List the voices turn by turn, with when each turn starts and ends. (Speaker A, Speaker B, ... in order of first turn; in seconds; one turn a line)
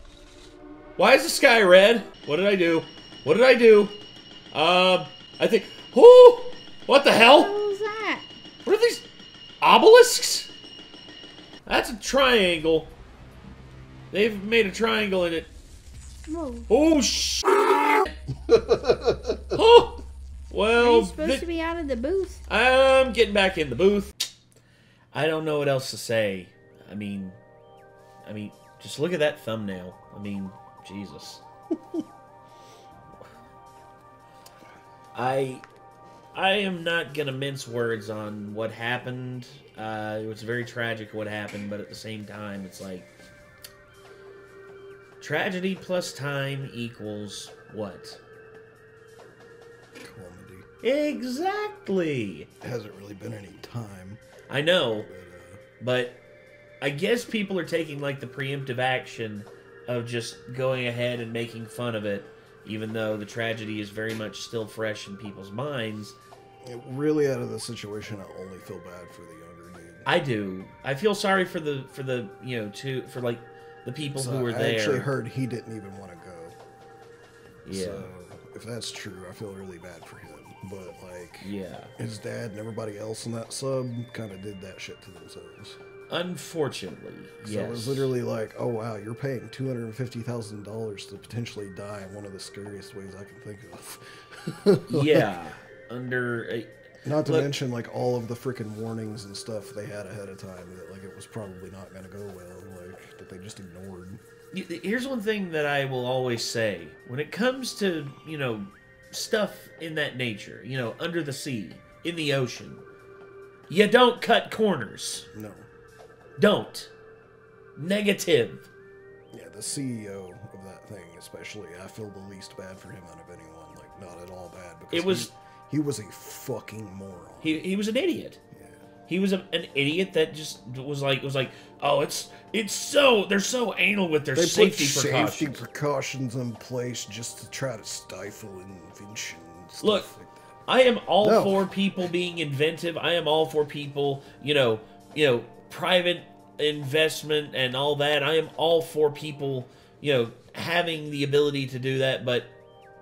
Speaker A: 1.0-4.0
Speaker A: 4.5-7.6
Speaker B: 7.1-8.2
Speaker A: 8.7-9.0
Speaker A: 9.6-10.5
Speaker A: 11.7-12.9
Speaker A: 14.1-15.5
Speaker B: 16.3-16.7
Speaker A: 16.7-18.1
Speaker C: 18.5-19.4
Speaker A: 19.5-21.5
Speaker B: 20.8-22.4
Speaker A: 22.5-24.1
Speaker A: 25.1-27.4
Speaker A: 28.2-31.4
Speaker A: 35.1-35.6
Speaker A: 36.3-43.1
Speaker A: 45.2-48.2
Speaker C: 50.0-50.7
Speaker A: 50.8-52.5
Speaker C: 52.6-54.2
Speaker A: 54.5-55.1
Speaker C: 54.9-55.6
Speaker A: 55.8-56.2
Speaker A: 56.8-66.2
Speaker C: 66.6-70.1
Speaker A: 70.1-75.1
Speaker C: 74.1-76.6
Speaker A: 77.7-78.1
Speaker C: 77.7-85.8
Speaker A: 81.4-81.9
Speaker A: 86.1-88.1
Speaker C: 87.4-95.3
Speaker A: 94.9-96.7
Speaker C: 97.0-104.2
Speaker A: 104.5-112.8
Speaker A: 113.7-115.3
Speaker C: 115.3-115.7
Speaker A: 116.4-116.9
Speaker A: 117.8-118.7
Speaker C: 119.3-127.6
Speaker A: 124.9-125.3
Speaker A: 127.4-128.4
Speaker C: 128.5-128.8
Speaker A: 129.1-135.6
Speaker C: 134.3-140.4
Speaker A: 139.8-140.1
Speaker A: 140.7-152.5
Speaker C: 141.2-141.6